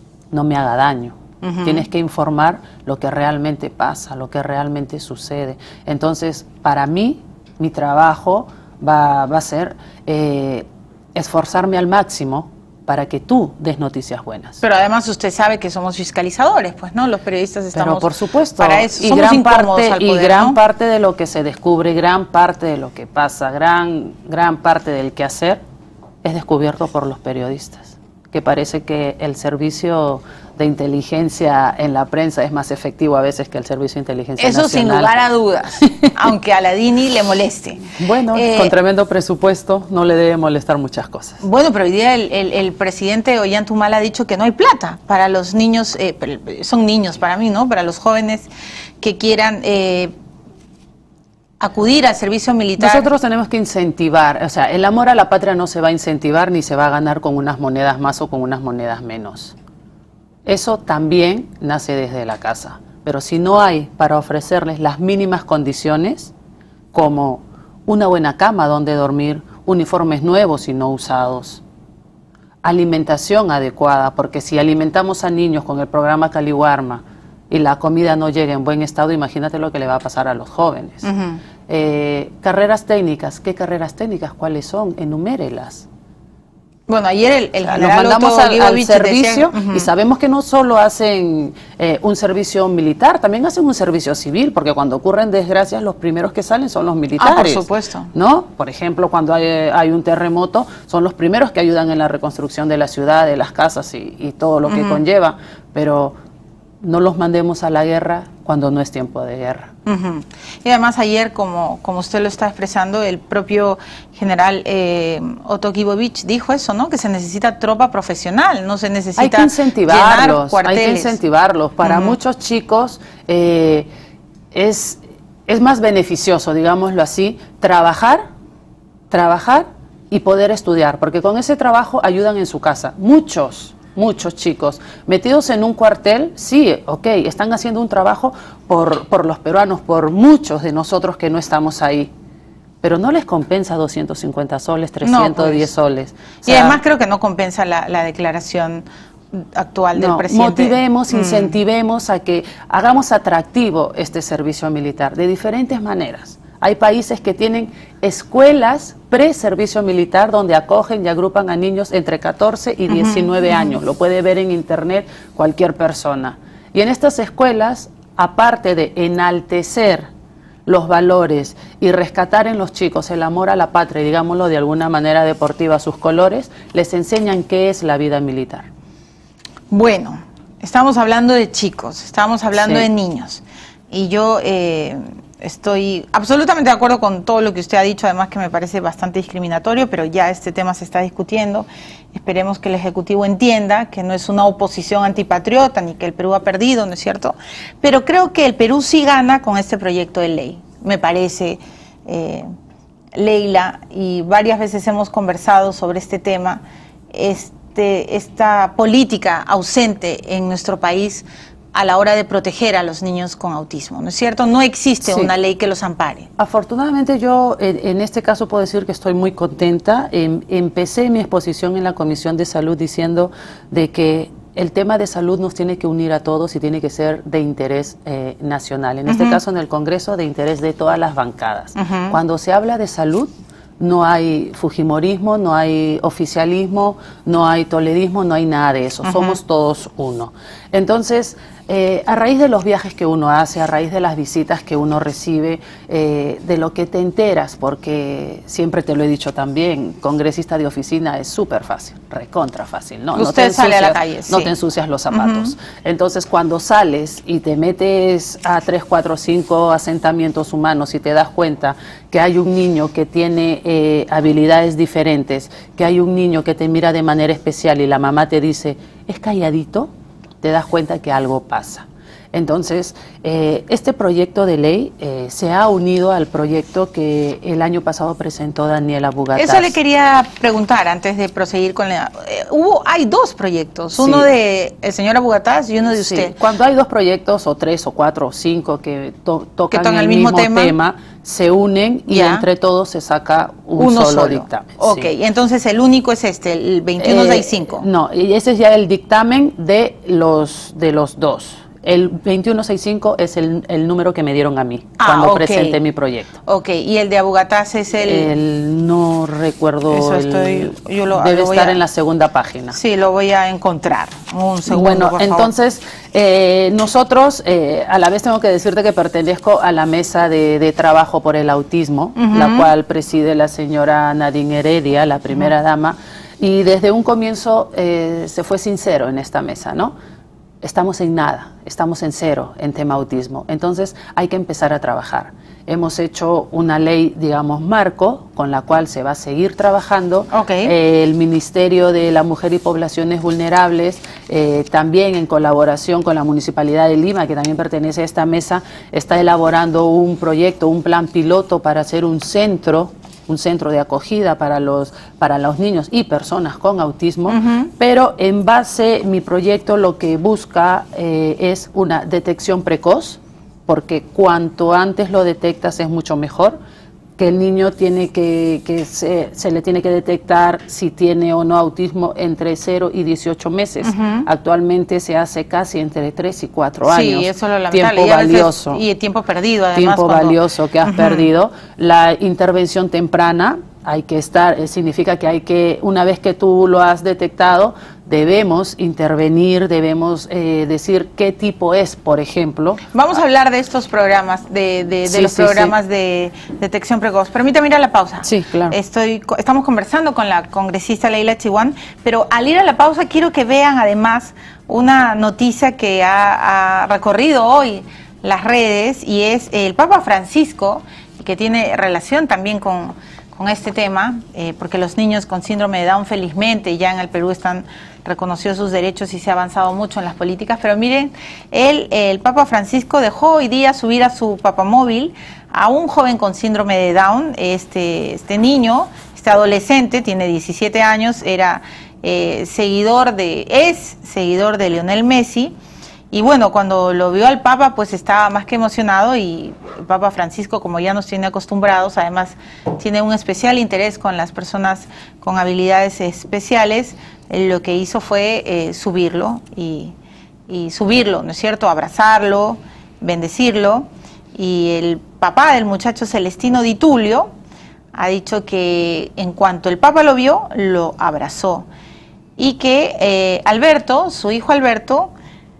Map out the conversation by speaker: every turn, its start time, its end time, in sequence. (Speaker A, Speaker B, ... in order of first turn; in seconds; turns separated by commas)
Speaker A: 0.3-14.6, Speaker B: 1.4-1.9, Speaker B: 14.6-20.6, Speaker A: 17.7-25.6, Speaker A: 26.2-35.2, Speaker B: 34.4-38.7, Speaker A: 35.8-36.1, Speaker A: 37.9-41.4, Speaker B: 41.4-48.5, Speaker B: 49.0-50.1, Speaker B: 51.6-53.1, Speaker A: 52.8-59.5, Speaker A: 60.4-66.3, Speaker A: 66.9-71.6, Speaker A: 72.6-81.0, Speaker B: 81.0-81.4, Speaker A: 81.7-85.8, Speaker B: 86.9-89.9, Speaker A: 87.6-106.2, Speaker B: 97.2-98.1, Speaker B: 104.7-105.0, Speaker A: 106.8-109.7, Speaker B: 109.8-121.2, Speaker A: 119.2-123.9, Speaker B: 121.8-122.2, Speaker A: 124.5-128.2, Speaker A: 129.1-142.1, Speaker A: 142.8-146.8, Speaker B: 145.0-145.7, Speaker B: 146.4-151.6, Speaker A: 149.9-170.1, Speaker B: 162.9-163.8, Speaker A: 170.7-178.7, Speaker B: 179.7-202.4, Speaker A: 182.6-182.9, Speaker B: 203.1-216.3, Speaker A: 215.0-215.3, Speaker A: 216.4-269.9, Speaker B: 229.1-229.4, Speaker B: 231.8-232.2, Speaker B: 239.0-239.4, Speaker B: 253.1-254.5, Speaker B: 255.1-255.5, Speaker A: 270.4-279.7, Speaker B: 279.3-286.3, Speaker A: 283.9-284.3, Speaker A: 285.9-295.1, Speaker B: 289.7-290.8, Speaker B: 292.1-292.4, Speaker B: 293.8-297.9, Speaker A: 297.0-306.4, Speaker B: 305.0-305.8, Speaker B: 306.4-308.3, Speaker A: 308.0-312.8, Speaker B: 309.9-311.8, Speaker B: 312.7-315.5, Speaker A: 314.7-329.9, Speaker B: 322.1-322.7, Speaker A: 330.6-366.6, Speaker B: 340.3-340.7, Speaker B: 357.3-357.7, Speaker A: 367.2-378.8, Speaker B: 373.8-374.3, Speaker B: 376.8-381.3, Speaker A: 379.7-392.9, Speaker B: 392.9-435.5, Speaker A: 395.0-395.7, Speaker A: 398.2-398.8, Speaker B: 436.1-449.9, Speaker B: 450.5-457.3, Speaker B: 457.9-461.7, Speaker B: 462.4-465.1